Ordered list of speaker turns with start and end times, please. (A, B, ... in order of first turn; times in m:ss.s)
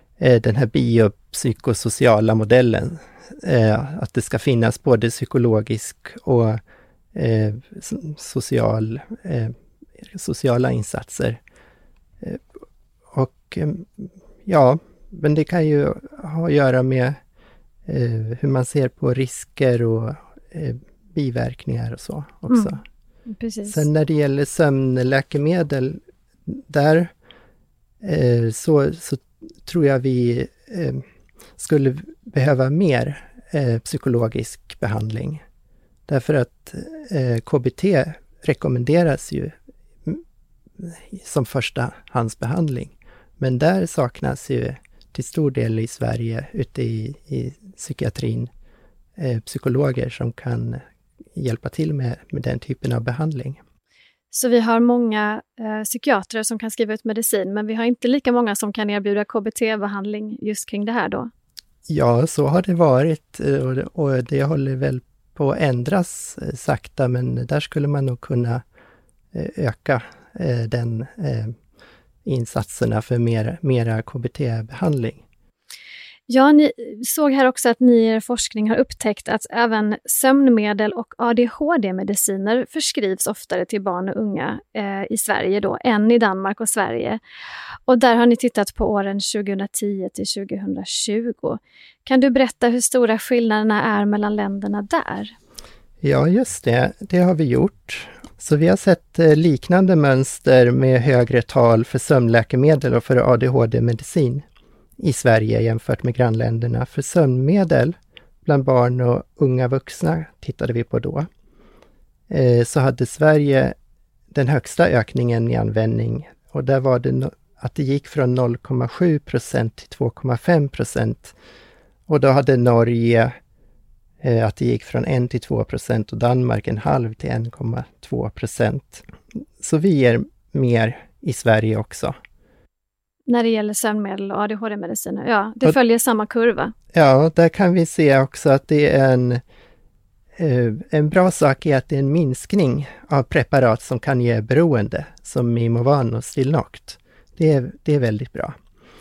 0:00.2-0:06.6 A
0:07.1-0:11.4 A
0:13.1-0:17.2 A
0:17.9-0:22.8 A
0:23.3-0:23.8 B
0:23.6-0:27.1 A
0:28.0-0:31.0 A
0:31.6-0:35.4 A
0:36.1-0:39.5 A
0:40.8-0:48.5 A
0:49.2-0:50.8 A
0:51.4-0:53.6 A
0:54.3-1:01.3 B
1:01.9-1:08.6 A
1:09.3-1:11.5 A
1:12.2-1:15.2 A
1:16.3-1:27.2 B
1:27.9-1:35.3 B
1:36.0-1:44.4 A
1:45.0-1:51.3 A
1:52.3-1:53.8 A
1:54.3-2:01.4 A
2:02.1-2:03.3 A
2:04.2-2:09.1 A
2:09.6-2:12.1 A
2:13.3-2:16.7 B
2:16.9-2:19.4 A
2:20.4-2:28.5 A